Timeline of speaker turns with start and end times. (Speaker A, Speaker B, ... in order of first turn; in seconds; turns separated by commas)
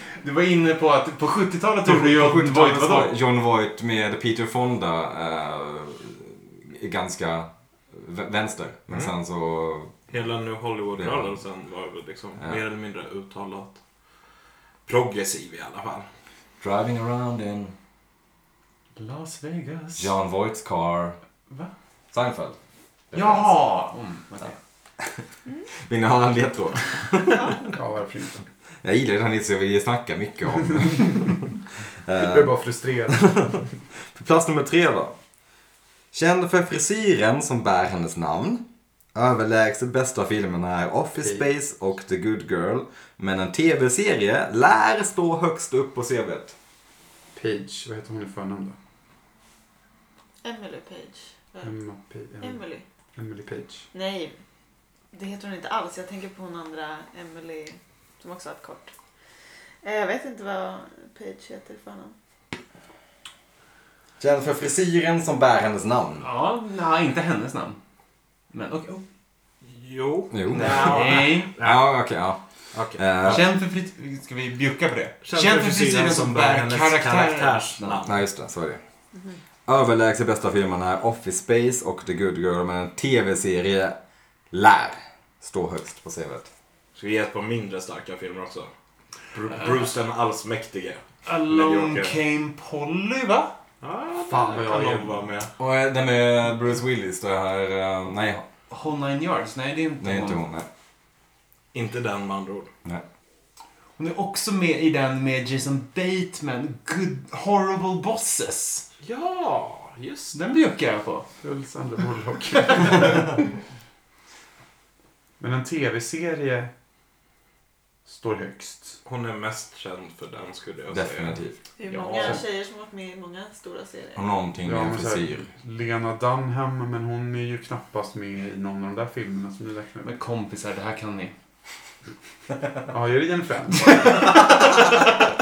Speaker A: 0.2-3.1, Speaker B: 1.9-9.9, Speaker C: 10.1-13.8, Speaker B: 11.0-11.4, Speaker C: 14.9-16.1, Speaker B: 16.6-17.7, Speaker A: 18.9-20.1, Speaker B: 19.9-21.2, Speaker B: 22.1-22.6, Speaker B: 23.1-23.6, Speaker A: 23.1-24.6, Speaker B: 25.9-27.5, Speaker D: 27.3-27.6, Speaker E: 27.6-28.4, Speaker B: 28.8-31.3, Speaker B: 32.1-32.5, Speaker E: 32.2-33.6, Speaker B: 33.1-33.6, Speaker B: 34.1-35.1, Speaker B: 36.1-46.5, Speaker E: 47.3-48.8, Speaker D: 50.4-51.7, Speaker E: 51.6-52.6, Speaker D: 52.4-52.9, Speaker E: 53.1-53.9, Speaker D: 53.9-54.4, Speaker D: 55.1-58.9, Speaker D: 59.8-62.1, Speaker B: 64.2-66.3, Speaker A: 66.2-67.8, Speaker A: 68.5-69.0, Speaker C: 69.6-71.8, Speaker B: 70.3-71.0, Speaker A: 70.5-71.5, Speaker B: 71.6-72.4, Speaker C: 72.7-73.4, Speaker B: 73.0-73.4, Speaker A: 73.2-78.1, Speaker C: 75.2-78.2, Speaker B: 78.1-78.8, Speaker D: 79.1-79.4, Speaker B: 79.7-84.0, Speaker B: 84.5-86.5, Speaker C: 87.0-88.7, Speaker C: 89.3-92.2, Speaker A: 89.5-89.8, Speaker A: 91.2-93.5, Speaker C: 93.8-95.5, Speaker E: 94.2-95.2, Speaker B: 95.6-98.5, Speaker A: 98.7-100.4, Speaker B: 100.0-100.7, Speaker C: 101.7-102.7, Speaker A: 104.0-108.9, Speaker C: 109.0-110.4, Speaker A: 110.3-111.3, Speaker E: 111.4-113.4, Speaker E: 115.4-116.7, Speaker E: 118.1-119.0, Speaker C: 119.0-121.4, Speaker B: 120.9-121.6, Speaker D: 121.8-124.3, Speaker A: 122.0-122.3, Speaker C: 122.0-122.3, Speaker B: 124.2-125.5, Speaker E: 124.6-130.2, Speaker A: 130.0-131.3, Speaker E: 132.9-134.6